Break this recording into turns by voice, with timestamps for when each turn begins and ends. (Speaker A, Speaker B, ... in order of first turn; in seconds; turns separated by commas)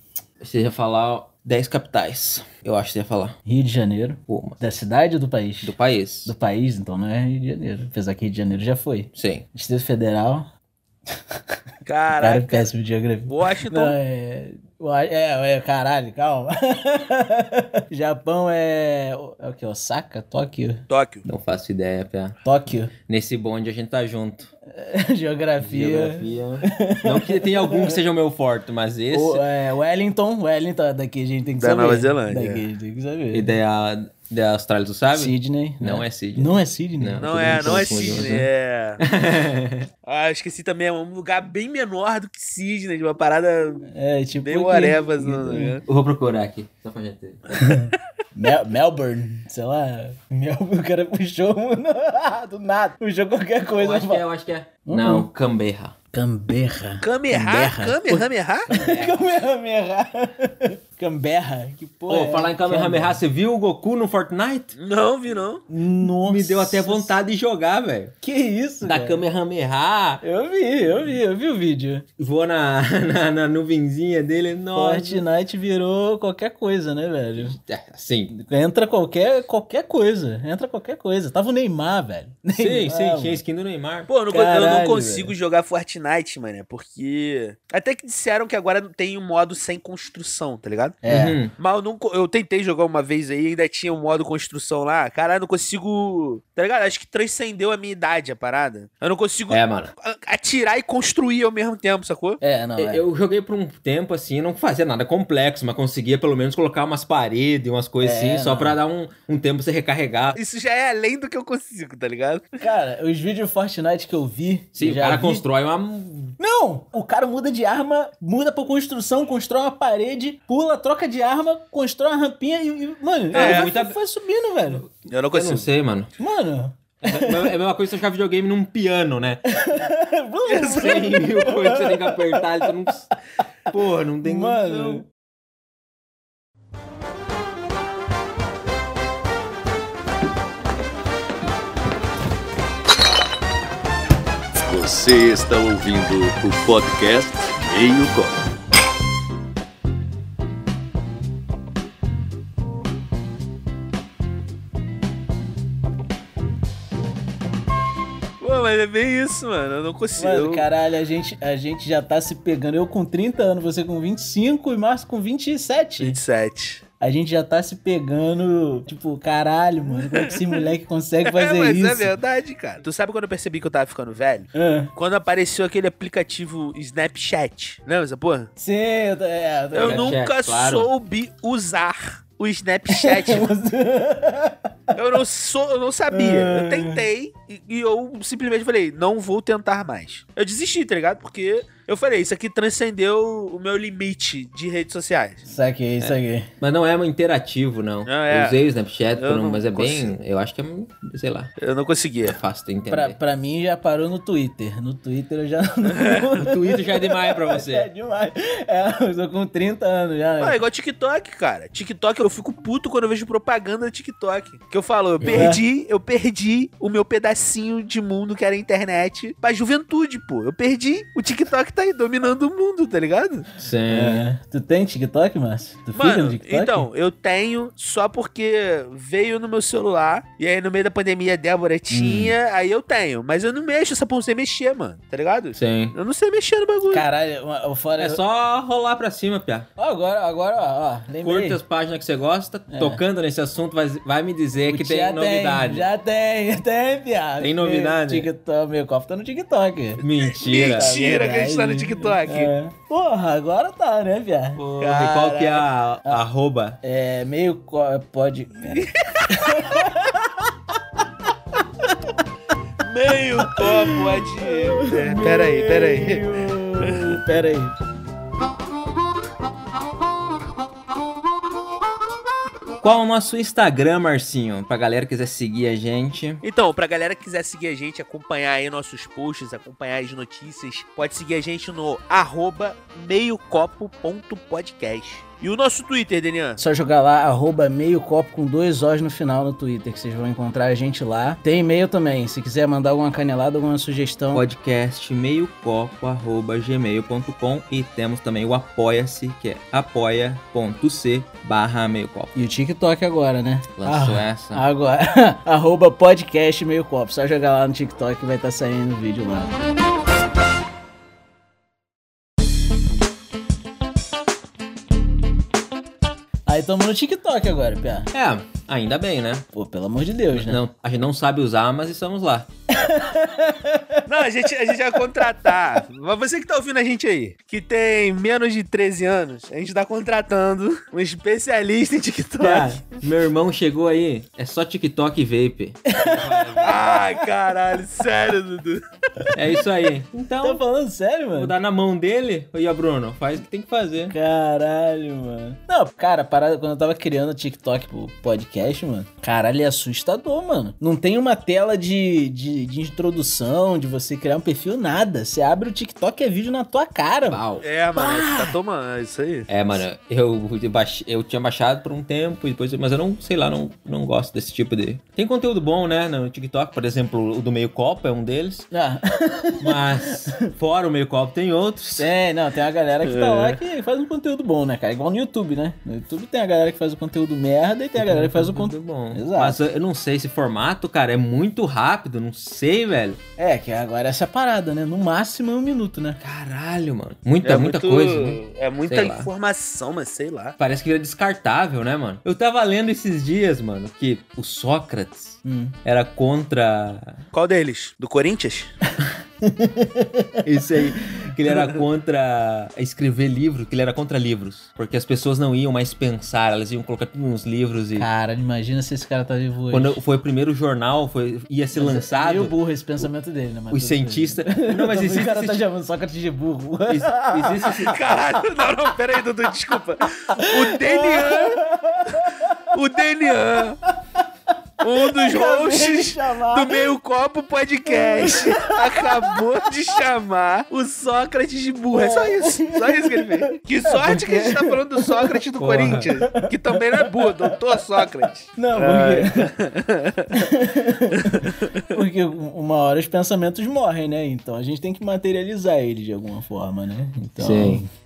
Speaker A: 0.4-3.4, Speaker B: 3.5-10.5, Speaker A: 4.3-4.6, Speaker A: 5.6-6.3, Speaker A: 9.2-9.4, Speaker C: 11.9-12.7, Speaker B: 12.2-20.8, Speaker C: 13.3-14.0, Speaker C: 20.9-21.2, Speaker A: 21.2-22.4, Speaker B: 22.4-22.9, Speaker A: 23.0-24.5, Speaker B: 24.7-28.0, Speaker A: 25.6-29.4, Speaker B: 29.1-33.5, Speaker C: 31.6-32.6, Speaker A: 33.3-38.5, Speaker B: 35.1-38.3, Speaker C: 37.2-39.0, Speaker A: 39.0-39.9, Speaker C: 40.0-43.9, Speaker B: 43.9-45.8, Speaker C: 44.4-45.8, Speaker A: 45.9-47.6, Speaker B: 47.6-54.3, Speaker A: 53.8-56.0, Speaker B: 54.9-55.3, Speaker B: 56.1-63.2, Speaker C: 57.0-58.7, Speaker A: 58.7-59.2, Speaker A: 62.1-64.7, Speaker C: 64.8-65.6, Speaker B: 65.7-67.2, Speaker A: 66.0-68.1, Speaker B: 68.2-69.2, Speaker A: 68.8-70.2, Speaker B: 70.2-72.1, Speaker A: 72.2-75.2, Speaker B: 74.8-77.6, Speaker A: 77.4-78.3, Speaker B: 78.3-83.4, Speaker A: 82.5-84.1, Speaker C: 84.1-91.0, Speaker B: 84.3-85.3, Speaker B: 91.0-91.4, Speaker A: 91.1-91.5, Speaker C: 91.6-102.4, Speaker A: 99.5-99.9, Speaker B: 102.4-103.0, Speaker A: 102.8-110.4, Speaker B: 108.0-108.8, Speaker C: 110.4-112.6, Speaker B: 112.6-115.4, Speaker A: 114.8-116.3, Speaker B: 116.4-124.8, Speaker C: 123.3-123.7, Speaker A: 123.3-124.0, Speaker A: 124.8-126.1, Speaker C: 125.1-125.7, Speaker B: 126.2-127.5, Speaker A: 127.0-129.5, Speaker B: 129.5-132.9, Speaker C: 130.5-130.9, Speaker A: 130.6-133.1, Speaker A: 133.7-135.0, Speaker B: 134.2-135.1, Speaker D: 144.6-148.4, Speaker C: 158.4-160.7, Speaker B: 160.2-166.2, Speaker C: 166.0-166.8, Speaker B: 167.0-172.1, Speaker C: 170.1-170.6, Speaker C: 171.2-178.5, Speaker B: 174.6-174.9, Speaker B: 178.6-180.1, Speaker C: 179.7-183.5, Speaker A: 179.8-180.9, Speaker B: 182.9-184.7, Speaker C: 184.9-195.5, Speaker B: 186.1-187.1, Speaker B: 195.5-196.5, Speaker A: 196.0-201.5, Speaker C: 198.1-198.6, Speaker C: 199.2-200.1, Speaker C: 201.6-202.4, Speaker A: 202.2-203.2, Speaker B: 202.9-210.6, Speaker C: 205.9-206.3, Speaker A: 206.4-207.9, Speaker C: 210.4-223.5, Speaker A: 215.2-215.6, Speaker B: 215.3-215.6, Speaker A: 223.6-224.2, Speaker B: 223.9-226.9, Speaker C: 225.9-237.1, Speaker B: 231.9-232.3, Speaker A: 235.6-235.9, Speaker B: 236.9-238.2, Speaker A: 238.0-239.7, Speaker B: 239.8-241.6, Speaker A: 241.2-245.9, Speaker B: 242.7-243.0, Speaker B: 244.7-255.5, Speaker A: 247.4-248.3, Speaker A: 250.0-250.9, Speaker C: 250.3-252.5, Speaker A: 254.6-256.8, Speaker C: 254.8-255.6, Speaker B: 256.8-260.5, Speaker C: 258.8-259.6, Speaker C: 262.8-266.3, Speaker B: 263.4-267.8, Speaker C: 266.8-267.2, Speaker A: 272.8-276.4, Speaker C: 276.4-286.6, Speaker B: 286.6-294.4, Speaker A: 294.3-302.3, Speaker B: 302.4-309.5, Speaker A: 303.8-304.6, Speaker B: 316.5-318.1, Speaker A: 318.1-319.4, Speaker B: 319.5-320.6, Speaker A: 320.3-322.5, Speaker B: 322.7-324.1, Speaker C: 324.1-332.8, Speaker A: 332.4-337.1, Speaker B: 335.9-337.1, Speaker C: 336.6-338.8, Speaker A: 339.3-340.6, Speaker B: 340.4-341.5, Speaker A: 341.3-344.1, Speaker B: 344.1-357.4, Speaker A: 357.3-357.6, Speaker C: 357.6-359.6, Speaker B: 357.9-358.6, Speaker A: 359.5-368.7, Speaker B: 368.7-370.4, Speaker A: 369.6-372.1, Speaker B: 372.0-379.6, Speaker C: 373.0-373.6, Speaker A: 378.0-383.2, Speaker B: 383.4-386.2, Speaker A: 386.2-389.3, Speaker C: 387.4-390.6, Speaker A: 390.6-397.2, Speaker B: 395.4-395.8, Speaker C: 397.3-398.7, Speaker B: 399.4-400.4, Speaker A: 400.4-408.1, Speaker C: 401.5-401.8, Speaker B: 408.0-410.0, Speaker A: 409.7-412.5, Speaker B: 411.8-417.9, Speaker A: 413.7-415.7, Speaker A: 416.9-418.1, Speaker C: 417.7-423.8, Speaker B: 420.0-422.7, Speaker C: 424.8-440.4, Speaker B: 424.9-426.9, Speaker B: 427.9-429.9, Speaker B: 431.9-438.0, Speaker A: 435.6-436.1, Speaker B: 438.6-439.5, Speaker B: 440.3-447.9, Speaker C: 441.1-441.9, Speaker A: 447.4-447.8